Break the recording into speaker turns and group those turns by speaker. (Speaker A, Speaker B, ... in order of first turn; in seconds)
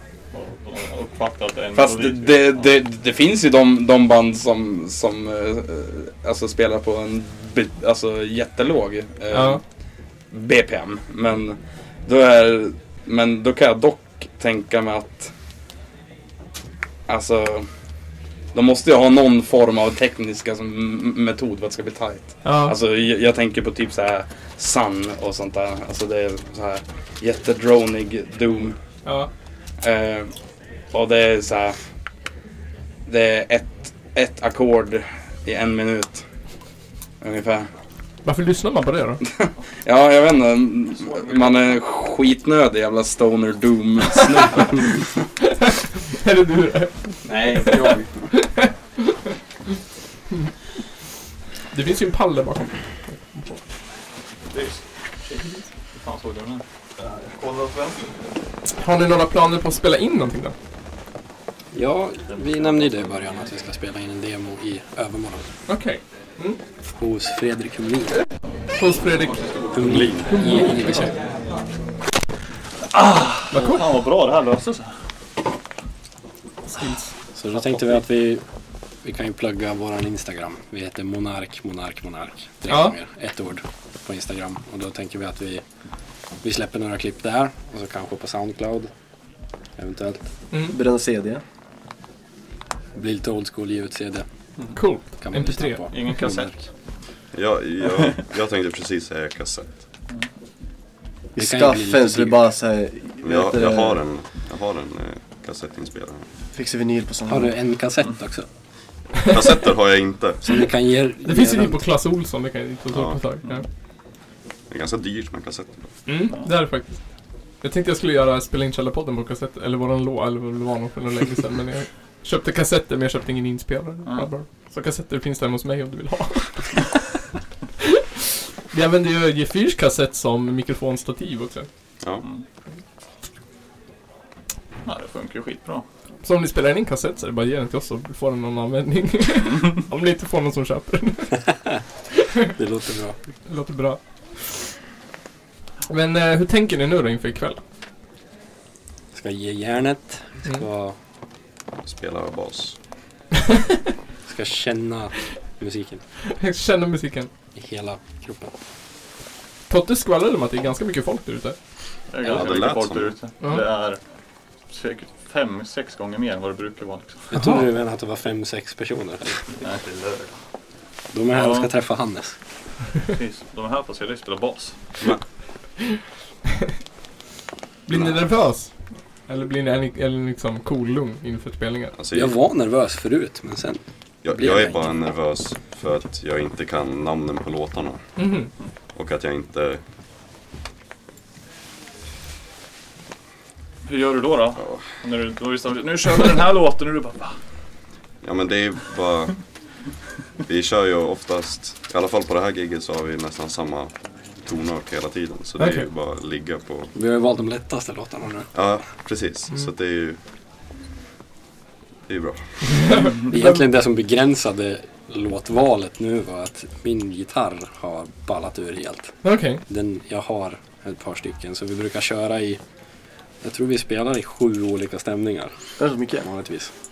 Speaker A: 0.3-2.7, 54.5-55.4, 55.9-58.1, 72.9-74.9, 77.6-78.0, 95.9-96.5, 134.8-135.8, 162.1-164.0, 164.7-167.2, 169.6-170.3, 171.3-171.7, 173.1-174.8, 193.8-197.4
Speaker B: 1.8-9.6, 10.3-15.3, 17.1-17.7, 18.5-28.8, 29.8-30.3, 30.9-31.8, 33.1-36.2, 37.2-37.7, 39.2-44.8, 47.2-48.1
Speaker C: 9.3-9.6, 22.4-22.8, 38.2-39.2, 46.1-49.2, 51.7-53.6, 58.8-60.5, 65.7-66.6, 68.8-71.1, 73.5-74.0, 76.7-77.1, 82.7-83.0, 94.8-96.0, 111.2-113.7, 116.1-117.0, 117.6-126.8, 128.7-131.7, 136.2-141.4, 143.5-144.0, 145.9-147.6, 156.3-157.3, 159.7-161.6, 167.3-167.7, 177.9-178.7, 179.3-181.9, 188.2-188.5, 205.6-205.8, 212.8-213.1, 219.2-219.6
Speaker D: 61.7-65.5, 67.0-68.1, 69.7-71.1, 77.3-78.4, 79.0-85.6, 86.4-88.9, 89.8-90.2, 93.0-94.2, 95.2-96.5, 101.4-102.4, 107.3-108.5, 110.4-111.8, 142.6-143.2, 149.1-151.0, 154.3-156.0, 157.6-158.5, 167.3-169.5, 171.1-172.3, 182.1-184.9, 206.9-208.5, 213.2-219.2, 219.7-222.6, 223.4-225.5, 226.2-226.7
Speaker E: 69.8-70.3, 97.3-99.8, 103.2-106.2, 109.3-110.7, 112.9-113.2, 114.7-115.8, 151.8-152.8, 162.2-163.1, 182.0-182.4, 184.2-188.0, 188.9-189.8, 198.2-199.4, 200.5-203.9, 204.4-206.9, 208.5-210.2, 212.1-212.4
Speaker F: 90.7-91.4, 101.4-104.0, 106.5-107.6, 225.8-226.3